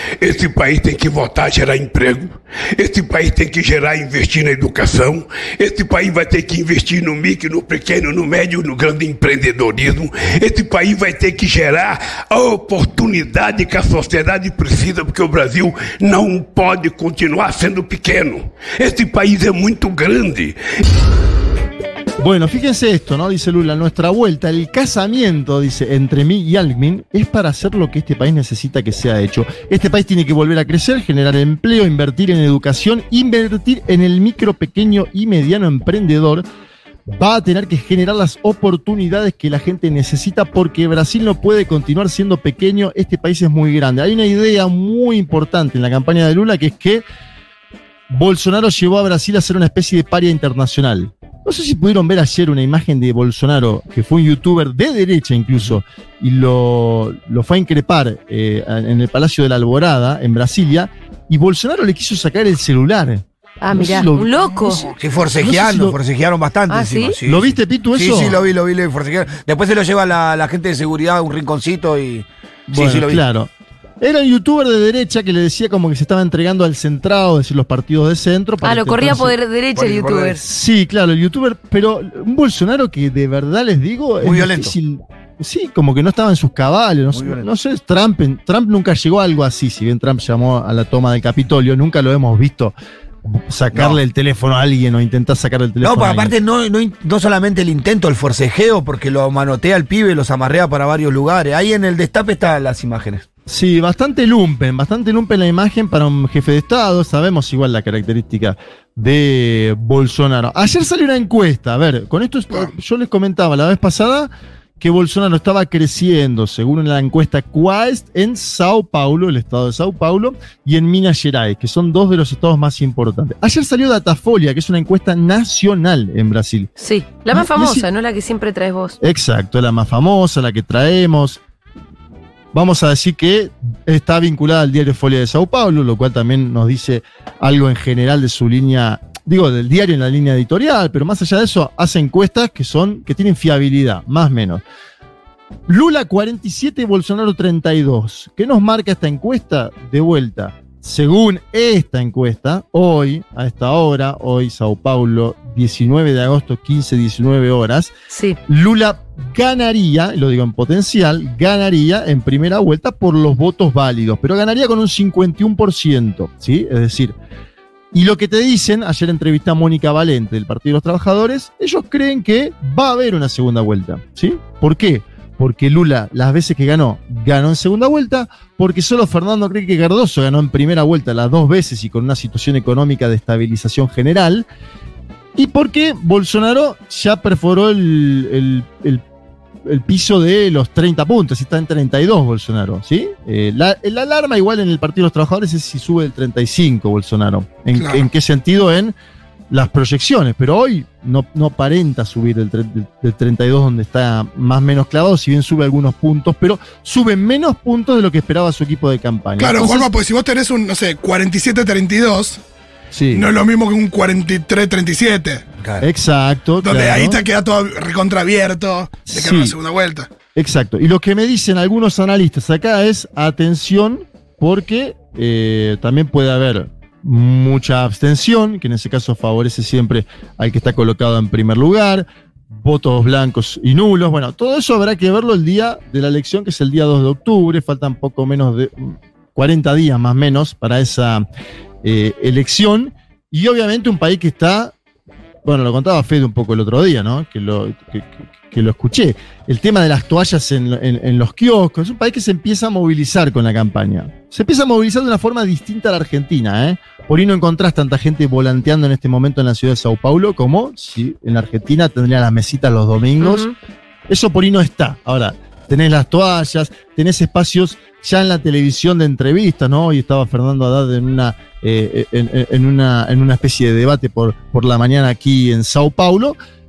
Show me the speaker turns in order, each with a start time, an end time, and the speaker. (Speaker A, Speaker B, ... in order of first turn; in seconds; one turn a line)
Speaker A: 0.2-20.6
Speaker B: 22.2-36.4
Speaker B: 37.1-47.0
Speaker B: 48.1-64.3
Speaker C: 63.6-64.9
Speaker D: 64.9-73.2
Speaker B: 65.3-66.0
Speaker C: 66.7-67.2
Speaker B: 67.2-68.4
Speaker B: 72.7-79.3
Speaker C: 78.6-80.4
Speaker D: 79.7-80.4
Speaker B: 80.4-96.4
Speaker D: 84.2-84.7
Speaker D: 87.1-87.5
Speaker D: 93.7-94.0
Speaker D: 95.8-103.2
Speaker B: 103.5-126.7
Speaker C: 126.8-129.0
Speaker B: 127.3-127.8
Speaker B: 129.0-131.4
Speaker B: 132.5-144.6
Speaker B: 145.7-157.9
Speaker C: 158.1-158.4
Speaker B: 158.5-167.1
Speaker B: 167.9-184.4
Speaker B: 185.3-189.0
Speaker B: 189.6-198.9
Speaker E: 197.7-198.1
Speaker B: 199.5-209.9
Speaker E: 209.4-212.4
Speaker B: 212.9-213.3
Speaker E: 213.1-215.4
Speaker B: 215.8-217.2
Speaker E: 216.6-220.1
Speaker B: 219.1-219.6
Speaker B: 220.3-241.2
Speaker B: 241.8-244.7
Speaker B: 245.4-263.4
Speaker C: 263.2-263.5
Speaker B: 264.1-276.4